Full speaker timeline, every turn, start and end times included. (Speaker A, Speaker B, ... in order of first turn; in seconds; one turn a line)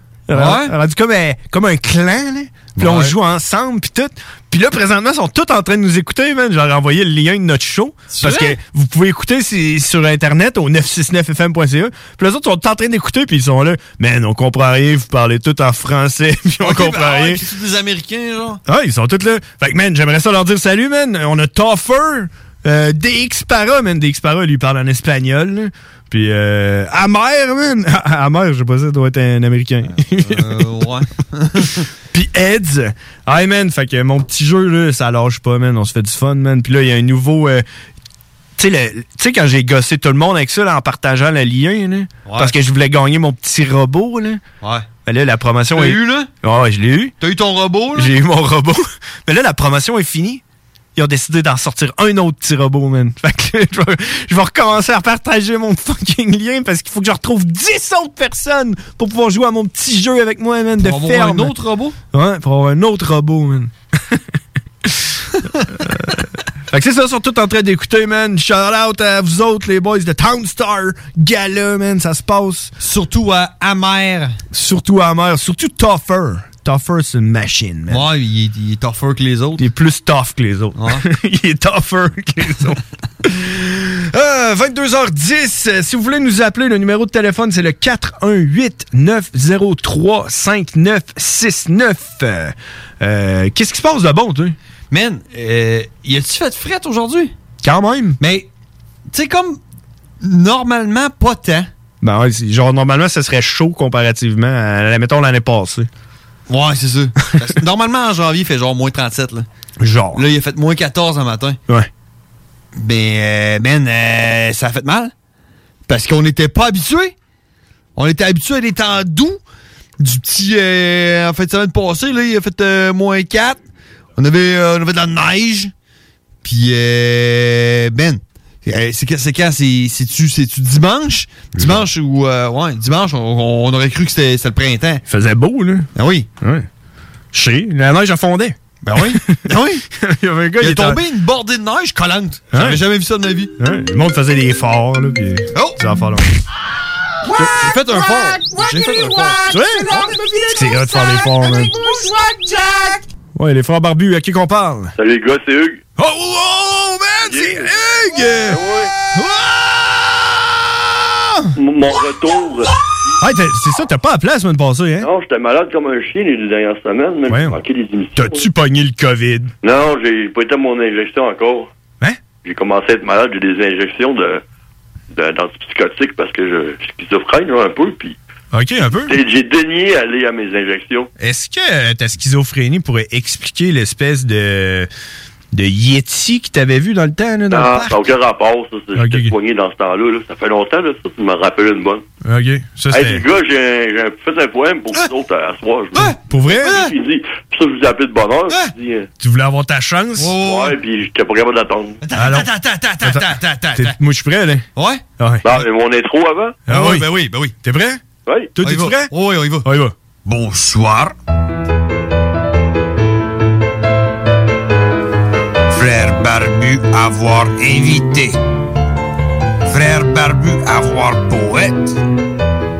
Speaker A: 0.3-17.4
Speaker B: 0.3-0.7
Speaker B: 2.7-3.1
Speaker B: 8.1-8.6
Speaker B: 16.6-18.6
Speaker A: 18.6-30.7
Speaker B: 30.0-31.8
Speaker A: 32.1-37.6
Speaker A: 38.6-44.4
Speaker B: 42.2-42.5
Speaker B: 44.6-44.9
Speaker A: 45.0-47.1
Speaker B: 45.7-46.3
Speaker B: 47.2-48.1
Speaker A: 47.9-50.4
Speaker A: 51.0-61.5
Speaker B: 60.8-62.0
Speaker A: 62.1-64.2
Speaker A: 64.8-65.1
Speaker A: 65.8-72.7
Speaker B: 72.8-74.3
Speaker A: 74.5-78.0
Speaker B: 77.9-79.7
Speaker A: 79.6-94.5
Speaker B: 80.8-81.0
Speaker B: 94.9-97.3
Speaker A: 97.6-98.2
Speaker B: 98.2-98.5
Speaker B: 99.1-99.6
Speaker B: 100.2-101.7
Speaker A: 102.0-105.9
Speaker B: 106.5-109.5
Speaker A: 109.8-110.2
Speaker B: 110.1-111.6
Speaker B: 112.8-115.1
Speaker B: 115.9-117.1
Speaker B: 118.0-119.4
Speaker B: 120.0-123.6
Speaker B: 124.2-125.7
Speaker B: 126.4-135.0
Speaker A: 131.6-131.8
Speaker A: 135.1-135.9
Speaker B: 135.9-136.3
Speaker A: 136.4-136.7
Speaker A: 137.3-141.0
Speaker B: 138.8-139.8
Speaker B: 140.6-143.5
Speaker A: 142.5-142.8
Speaker A: 143.6-146.3
Speaker B: 145.5-145.8
Speaker B: 147.4-150.1
Speaker A: 149.5-149.9
Speaker A: 150.5-151.8
Speaker A: 153.3-154.9
Speaker C: 155.0-155.8
Speaker A: 156.0-158.6
Speaker C: 157.3-157.7
Speaker C: 158.4-158.9
Speaker A: 159.1-160.0
Speaker C: 161.6-162.7
Speaker A: 163.2-165.1
Speaker C: 165.0-168.4
Speaker A: 167.3-167.6
Speaker A: 168.2-169.5
Speaker C: 169.6-171.7
Speaker C: 172.4-174.4
Speaker C: 175.1-178.2
Speaker A: 178.5-179.2
Speaker C: 178.9-181.1
Speaker A: 181.2-184.9
Speaker A: 185.5-188.0
Speaker C: 187.5-192.0
Speaker A: 188.9-189.3
Speaker A: 192.2-193.2
Speaker C: 192.9-199.1
Speaker B: 195.9-196.9
Speaker A: 196.3-196.8
Speaker A: 199.2-200.3
Speaker B: 200.2-200.8
Speaker C: 200.4-202.0
Speaker B: 202.0-204.0
Speaker A: 202.2-202.5
Speaker A: 203.0-204.6
Speaker B: 204.7-205.0
Speaker A: 205.2-205.6
Speaker C: 205.4-206.6
Speaker A: 206.7-208.0
Speaker B: 206.7-207.5
Speaker C: 208.2-208.5
Speaker A: 208.6-209.1
Speaker B: 208.6-209.7
Speaker A: 209.6-209.9
Speaker B: 210.2-211.1
Speaker D: 215.7-218.4
Speaker D: 219.6-221.9